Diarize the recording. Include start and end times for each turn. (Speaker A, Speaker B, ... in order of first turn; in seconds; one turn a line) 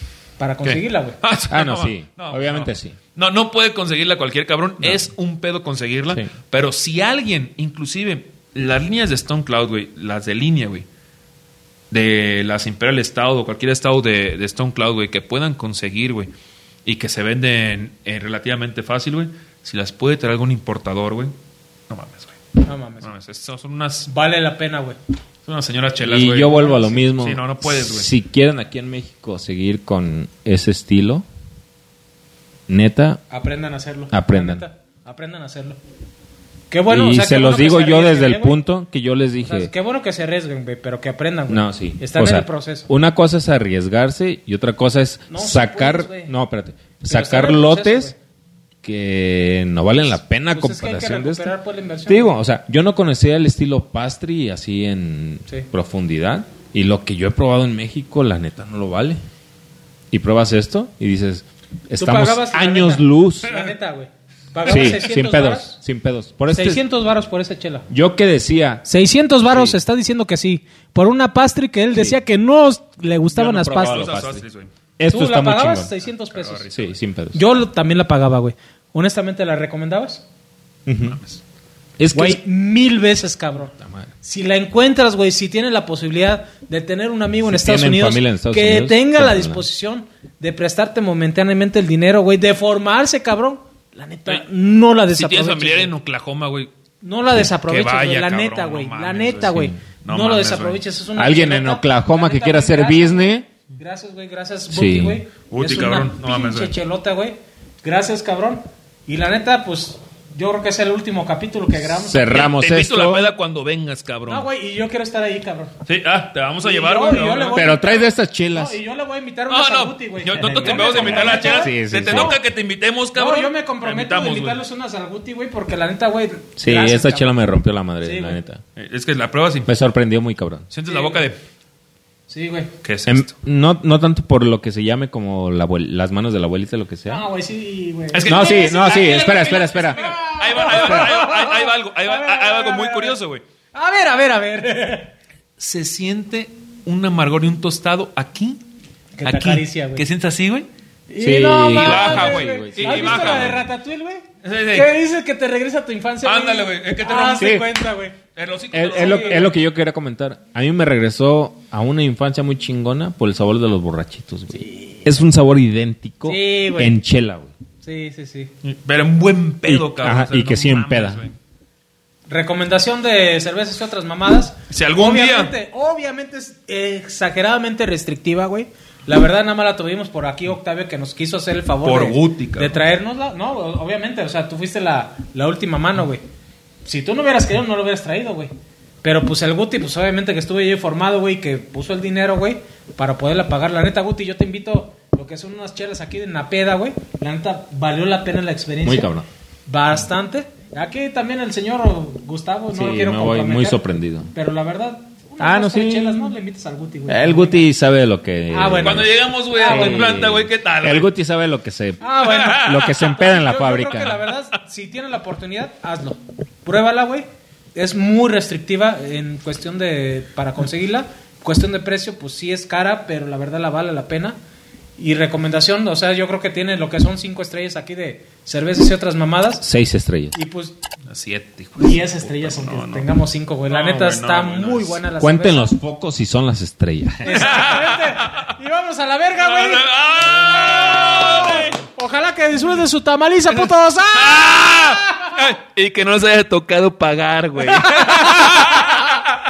Speaker A: 0.4-1.2
Speaker B: 0.6-10.9
Speaker C: 1.5-3.0
Speaker C: 4.8-5.1
Speaker B: 11.9-16.3
Speaker B: 16.9-21.3
Speaker B: 21.9-22.4
Speaker A: 22.6-23.1
Speaker B: 23.0-24.1
Speaker A: 24.1-25.0
Speaker B: 25.4-26.6
Speaker C: 26.0-31.2
Speaker A: 26.4-27.1
Speaker B: 27.1-28.1
Speaker C: 32.7-33.2
Speaker A: 33.3-35.8
Speaker C: 34.1-34.6
Speaker A: 36.7-38.6
Speaker C: 36.9-39.7
Speaker A: 39.5-42.9
Speaker C: 41.5-48.1
Speaker A: 45.3-46.3
Speaker A: 47.1-48.1
Speaker C: 48.8-51.5
Speaker A: 50.5-52.4
Speaker C: 52.1-59.2
Speaker C: 60.1-63.5
Speaker A: 62.0-65.8
Speaker C: 64.6-66.8
Speaker A: 66.5-67.9
Speaker C: 67.9-68.8
Speaker A: 68.8-74.1
Speaker C: 69.4-69.8
Speaker C: 73.3-74.4
Speaker B: 73.8-74.7
Speaker C: 75.0-75.9
Speaker A: 75.1-76.7
Speaker B: 76.3-77.0
Speaker C: 76.7-77.4
Speaker A: 77.3-80.2
Speaker C: 80.9-81.2
Speaker B: 81.1-81.4
Speaker C: 82.0-82.4
Speaker A: 82.1-95.9
Speaker C: 83.8-84.1
Speaker C: 87.4-89.6
Speaker B: 95.1-96.7
Speaker A: 97.0-112.5
Speaker B: 97.6-100.8
Speaker C: 99.5-99.8
Speaker C: 101.2-103.5
Speaker C: 104.7-105.2
Speaker B: 105.5-106.8
Speaker C: 111.8-113.3
Speaker B: 112.3-114.5
Speaker A: 114.3-115.7
Speaker B: 115.8-117.7
Speaker A: 116.6-122.4
Speaker C: 117.5-118.8
Speaker B: 119.5-124.6
Speaker C: 120.4-122.4
Speaker A: 123.1-127.3
Speaker C: 126.6-128.6
Speaker A: 128.0-128.4
Speaker B: 128.8-129.7
Speaker C: 129.7-130.7
Speaker B: 130.7-131.4
Speaker A: 130.9-131.2
Speaker A: 132.3-132.7
Speaker B: 132.8-133.3
Speaker C: 133.1-137.2
Speaker A: 137.1-143.2
Speaker B: 138.1-143.4
Speaker C: 138.2-140.1
Speaker C: 140.7-141.1
Speaker A: 143.7-145.1
Speaker B: 145.6-148.6
Speaker A: 149.2-150.0
Speaker B: 149.2-150.7
Speaker A: 151.1-158.2
Speaker C: 151.2-153.6
Speaker B: 151.8-153.6
Speaker B: 154.4-154.9
Speaker B: 156.2-157.6
Speaker C: 157.4-157.7
Speaker B: 158.3-159.5
Speaker C: 158.7-167.5
Speaker A: 158.9-159.5
Speaker A: 164.6-165.0
Speaker A: 166.2-167.0
Speaker A: 167.8-168.5
Speaker B: 168.6-171.4
Speaker C: 169.7-171.2
Speaker A: 172.3-186.2
Speaker B: 174.7-175.5
Speaker B: 181.8-182.8
Speaker A: 186.9-188.5
Speaker A: 189.0-199.1
Speaker C: 198.8-199.2
Speaker A: 199.7-207.6
Speaker C: 202.7-204.3
Speaker C: 205.4-206.3
Speaker C: 207.1-214.2
Speaker A: 208.5-210.2
Speaker B: 208.8-211.1
Speaker A: 212.0-224.4
Speaker B: 212.2-212.8
Speaker A: 225.0-229.7
Speaker C: 229.6-230.4
Speaker A: 230.3-230.8
Speaker B: 231.1-233.1
Speaker A: 231.8-235.7
Speaker B: 233.7-235.0
Speaker C: 235.2-237.4
Speaker A: 237.2-245.4
Speaker B: 237.3-238.5
Speaker B: 239.3-241.8
Speaker B: 244.1-249.2
Speaker A: 247.6-249.1